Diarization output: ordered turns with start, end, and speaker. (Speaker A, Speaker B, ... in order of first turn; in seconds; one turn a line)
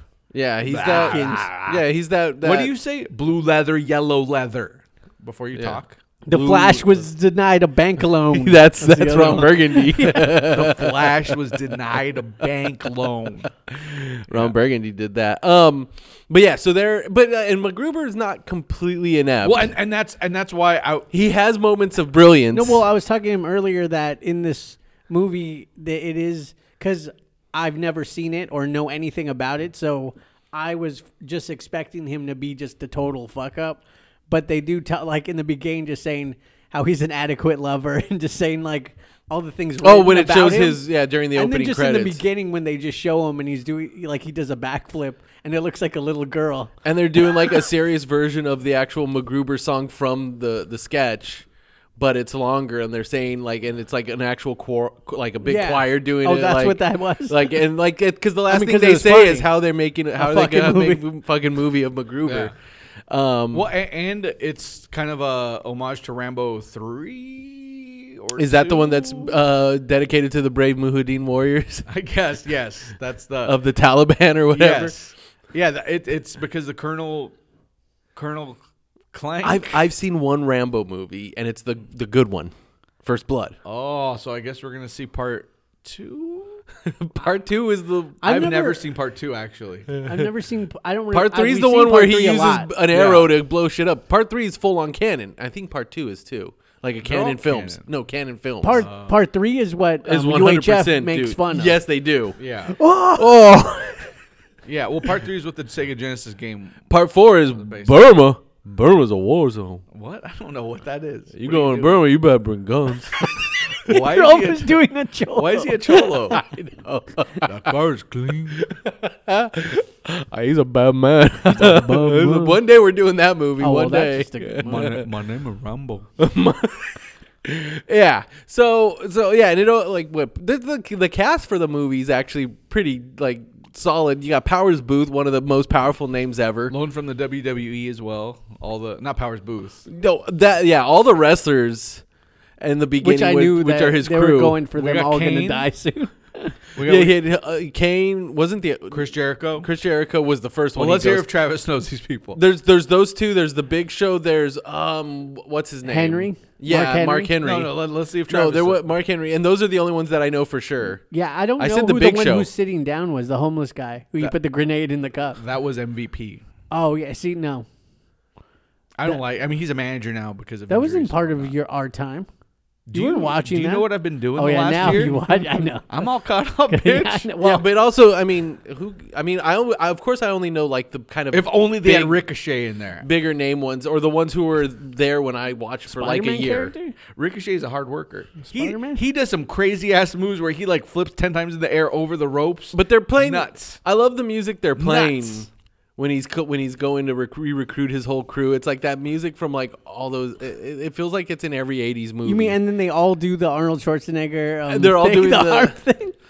Speaker A: 0.3-2.7
Speaker B: 0.6-1.8
Speaker C: 0.8-1.5
Speaker B: 2.4-6.0
Speaker A: 5.5-7.0
Speaker C: 6.3-10.4
Speaker A: 8.2-11.3
Speaker B: 10.2-13.5
Speaker A: 13.7-19.7
Speaker B: 14.3-14.5
Speaker B: 19.4-21.1
Speaker A: 21.1-22.8
Speaker C: 22.5-46.7
Speaker A: 39.8-42.2
Speaker A: 46.8-62.5
Speaker C: 55.4-57.6
Speaker C: 58.5-59.5
Speaker C: 60.1-61.0
Speaker B: 62.3-62.5
Speaker A: 63.1-63.7
Speaker B: 63.5-69.3
Speaker A: 68.4-71.9
Speaker B: 71.9-73.6
Speaker A: 73.5-74.9
Speaker B: 74.5-77.3
Speaker B: 78.2-78.6
Speaker B: 79.1-79.8
Speaker A: 79.4-82.5
Speaker A: 83.0-83.6
Speaker B: 83.7-86.6
Speaker A: 86.8-88.2
Speaker C: 88.2-88.8
Speaker B: 88.2-90.0
Speaker C: 90.0-92.7
Speaker A: 91.1-98.9
Speaker B: 92.9-93.3
Speaker B: 97.0-97.8
Speaker C: 98.6-101.8
Speaker B: 98.7-99.2
Speaker A: 100.0-102.4
Speaker B: 102.4-102.8
Speaker C: 102.8-103.3
Speaker A: 103.1-104.0
Speaker B: 104.7-106.9
Speaker A: 106.9-109.8
Speaker B: 107.5-108.0
Speaker B: 109.9-112.1
Speaker A: 111.3-113.2
Speaker B: 113.8-116.5
Speaker C: 113.8-116.4
Speaker A: 116.3-117.7
Speaker B: 117.5-118.7
Speaker A: 118.6-125.0
Speaker C: 121.5-122.6
Speaker C: 123.6-125.0
Speaker B: 124.7-126.1
Speaker A: 126.2-136.7
Speaker B: 136.7-139.9
Speaker A: 139.9-142.0
Speaker A: 142.6-144.6
Speaker C: 143.0-146.6
Speaker B: 144.8-145.7
Speaker B: 146.8-147.2
Speaker A: 146.8-151.3
Speaker B: 148.9-149.7
Speaker B: 150.8-152.4
Speaker A: 152.3-157.7
Speaker C: 155.8-157.4
Speaker B: 157.4-158.8
Speaker A: 158.3-161.0
Speaker C: 161.1-165.4
Speaker A: 161.6-162.5
Speaker B: 165.4-166.4
Speaker C: 166.7-167.7
Speaker B: 169.0-171.5
Speaker C: 170.7-172.3
Speaker B: 172.9-177.5
Speaker C: 172.9-175.9
Speaker C: 176.7-177.7
Speaker A: 177.4-182.2
Speaker B: 181.3-183.1
Speaker A: 183.0-186.7
Speaker C: 185.9-187.0
Speaker B: 187.1-193.8
Speaker C: 188.5-189.0
Speaker A: 192.7-202.6
Speaker B: 194.8-195.5
Speaker C: 202.2-206.2
Speaker A: 204.7-205.8